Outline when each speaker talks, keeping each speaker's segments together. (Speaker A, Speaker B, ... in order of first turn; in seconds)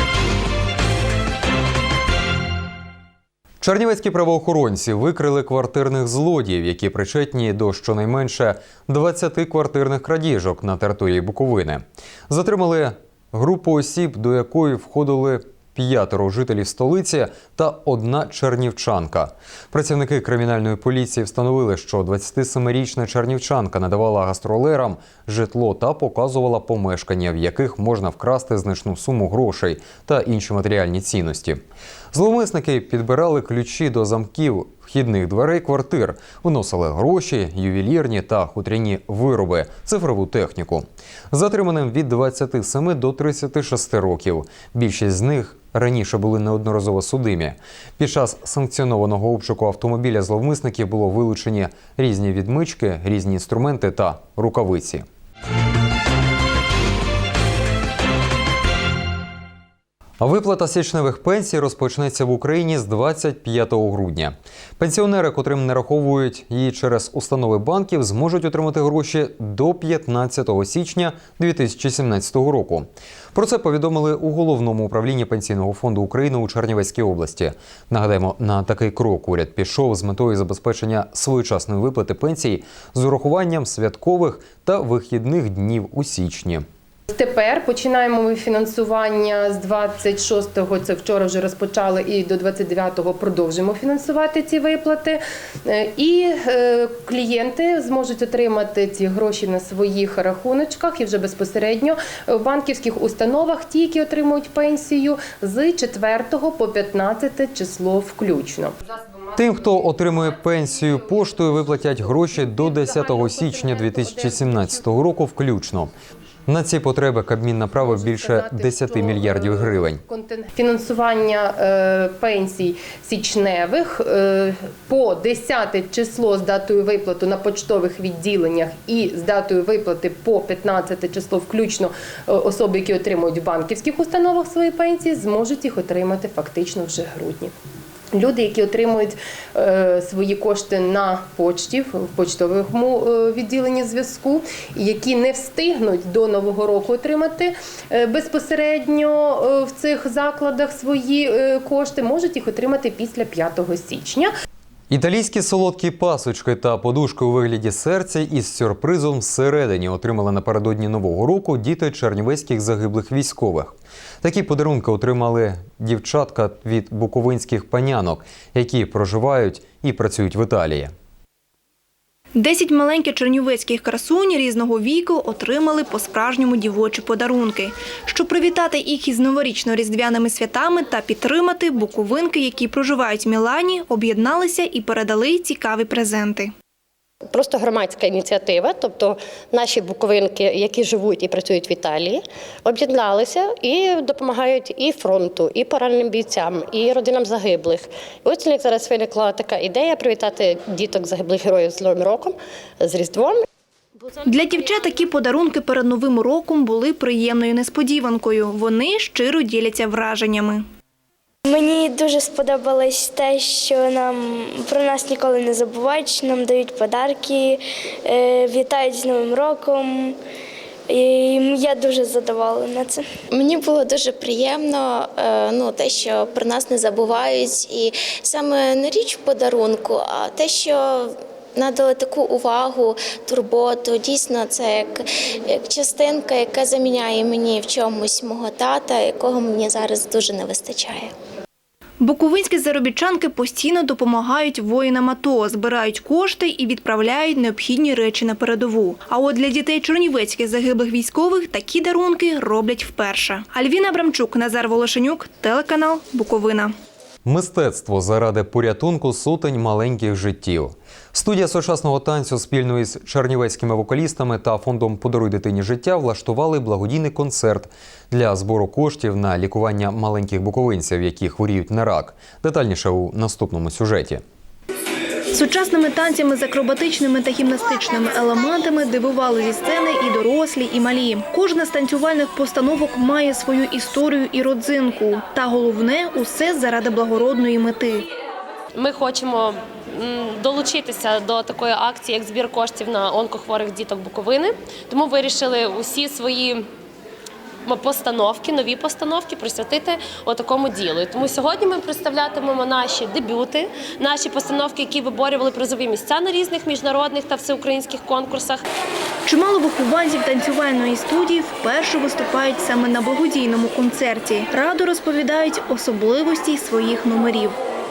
Speaker A: 3.6-31.6, 32.1-55.0, 60.2-86.6, 109.4-115.9, 116.5-120.0, 154.9-170.9, 257.2-274.2
Speaker B: 87.1-110.1, 110.8-114.8, 117.8-137.5, 138.1-154.3
Speaker C: 172.3-186.5, 204.2-210.7, 242.0-256.7, 275.3-288.0, 309.2-317.6
Speaker D: 187.3-203.4
Speaker E: 211.4-220.1, 220.9-223.0
Speaker F: 223.3-241.1
Speaker G: 288.7-296.6, 297.6-308.6